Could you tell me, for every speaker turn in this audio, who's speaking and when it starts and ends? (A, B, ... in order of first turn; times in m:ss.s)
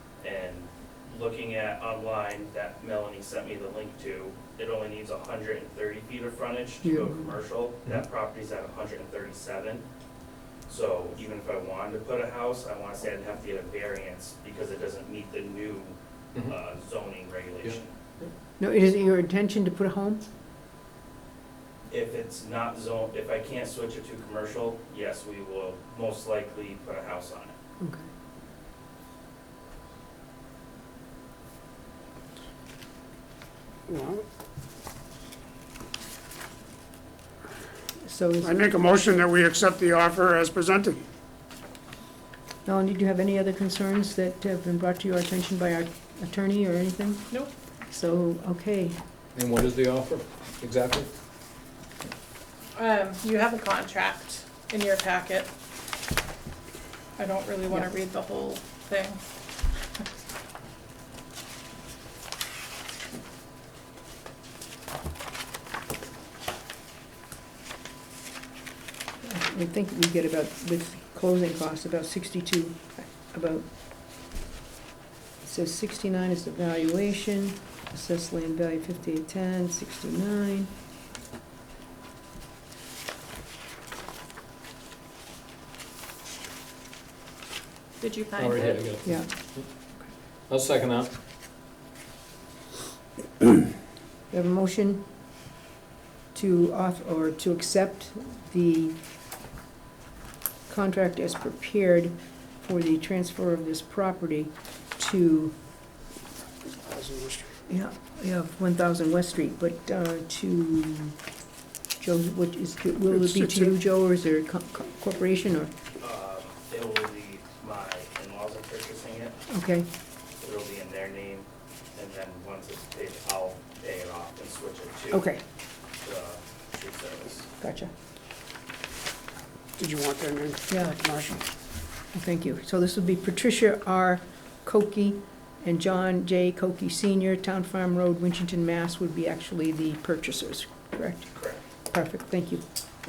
0:00.2-0:09.8 A
0:06.8-0:07.3 B
0:10.7-0:17.9 A
0:17.6-0:18.3 C
0:18.6-0:20.2 B
0:21.9-0:27.5 A
0:27.8-0:28.1 B
0:33.9-0:34.2 D
0:38.0-0:38.6 B
0:38.4-0:41.0 D
0:42.7-0:47.3 B
0:47.9-0:49.0 B
0:49.4-0:51.1 C
0:52.7-0:55.5 E
0:57.2-0:59.3 E
1:09.2-1:13.7 B
1:15.4-1:20.7 B
1:28.0-1:28.9 E
1:28.4-1:29.7 C
1:29.0-1:29.3 B
1:30.5-1:31.1 C
1:34.3-1:35.0 B
1:36.3-1:39.0 B
1:40.7-1:45.5 B
1:46.8-1:47.6 D
1:47.7-1:51.2 B
1:52.0-1:55.7 B
1:53.1-1:53.7 D
1:56.0-1:59.3 A
1:59.5-1:59.9 B
2:00.4-2:05.3 A
2:05.1-2:05.4 B
2:06.0-2:07.5 A
2:07.6-2:07.9 B
2:09.8-2:11.4 D
2:10.7-2:11.0 B
2:12.1-2:21.3 B
2:21.3-2:21.6 A
2:21.9-2:22.6 B